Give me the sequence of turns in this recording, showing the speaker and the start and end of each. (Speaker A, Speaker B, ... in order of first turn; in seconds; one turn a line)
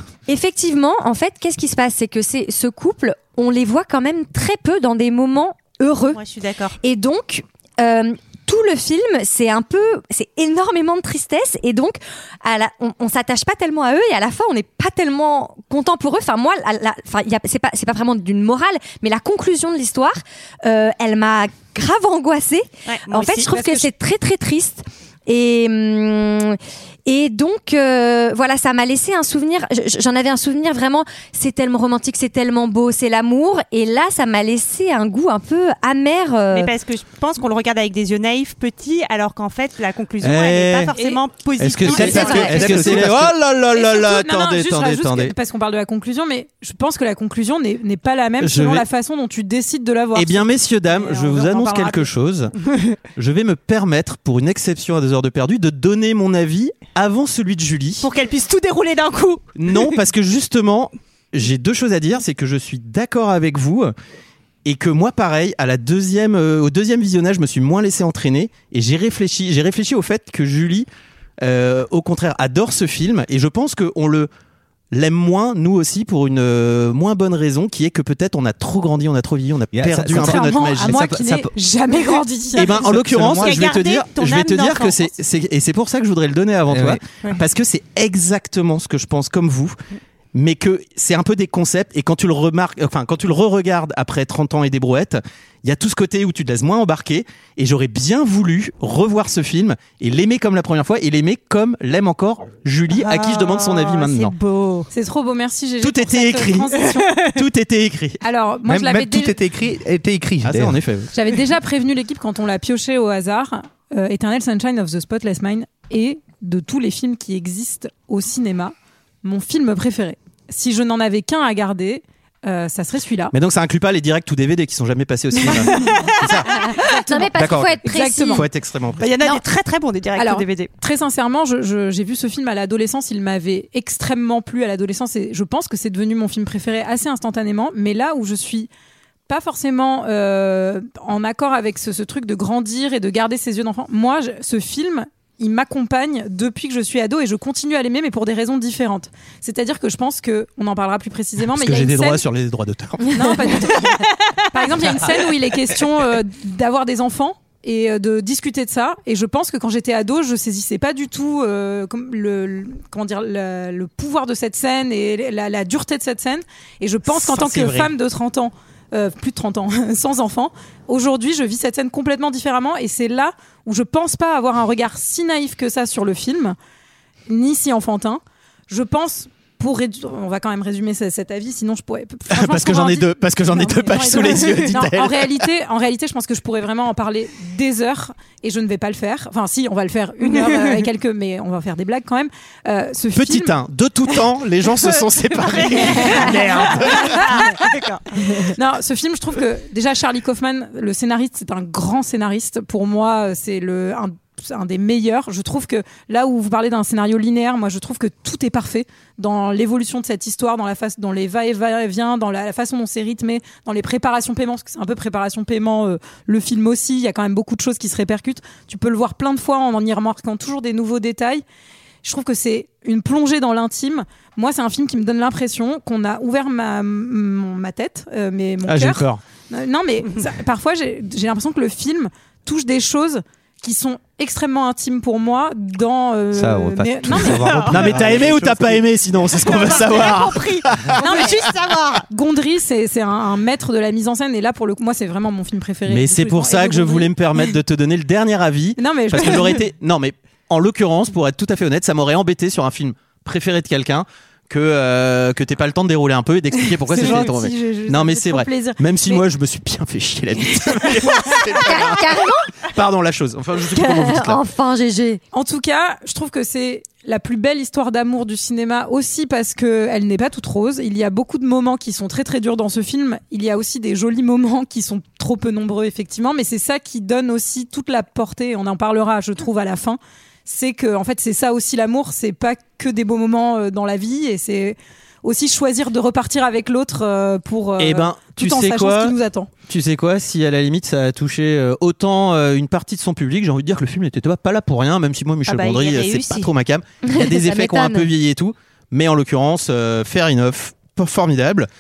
Speaker A: 0.3-6.2
Speaker B: 6.1-6.8
Speaker A: 6.8-36.7
Speaker B: 22.9-23.5
Speaker C: 23.5-23.8
Speaker B: 36.5-43.0
Speaker D: 40.2-40.9
Speaker C: 41.0-41.2
Speaker D: 41.6-45.3
Speaker E: 41.8-43.4
Speaker A: 42.0-42.5
Speaker C: 43.7-52.1
Speaker D: 48.4-48.8
Speaker D: 50.1-52.5
Speaker D: 53.2-58.1
Speaker B: 58.0-59.9
Speaker D: 59.6-63.9
Speaker D: 64.7-70.9
Speaker D: 71.4-74.3
Speaker D: 74.9-81.5
Speaker E: 79.7-81.5
Speaker C: 80.1-82.8
Speaker D: 82.5-89.8
Speaker E: 82.6-83.7
Speaker B: 83.4-85.1
Speaker E: 86.7-87.0
Speaker D: 90.3-104.3
Speaker B: 102.9-104.9
Speaker C: 104.9-107.2
Speaker D: 105.8-108.2
Speaker B: 106.9-107.3
Speaker C: 108.2-109.4
Speaker E: 108.7-110.8
Speaker D: 110.4-111.1
Speaker C: 111.1-123.3
Speaker D: 123.3-126.5
Speaker C: 125.5-126.0
Speaker B: 125.7-126.1
Speaker A: 126.5-128.4
Speaker C: 126.8-127.3
Speaker D: 127.3-129.1
Speaker C: 127.8-128.5
Speaker B: 129.0-130.7
Speaker C: 130.2-138.7
Speaker C: 139.3-152.2
Speaker D: 151.5-153.3
Speaker C: 153.1-176.6
Speaker B: 154.0-154.3
Speaker D: 167.1-167.9
Speaker C: 177.3-193.6
Speaker D: 182.3-185.4
Speaker B: 190.2-190.8
Speaker D: 193.2-197.4
Speaker B: 195.4-198.4
Speaker C: 196.3-197.5
Speaker C: 198.5-221.4
Speaker C: 222.0-237.7
Speaker D: 228.7-229.2
Speaker E: 236.3-238.9
Speaker B: 237.2-238.1
Speaker D: 237.7-241.0
Speaker B: 239.4-242.1
Speaker C: 241.0-241.5
Speaker C: 242.1-247.4
Speaker D: 245.9-264.4
Speaker C: 248.8-249.6
Speaker C: 256.8-259.2
Speaker A: 261.6-262.5
Speaker A: 263.7-265.2
Speaker C: 265.3-289.5
Speaker D: 287.8-289.1
Speaker D: 289.7-301.7
Speaker B: 295.5-296.5
Speaker A: 297.0-298.1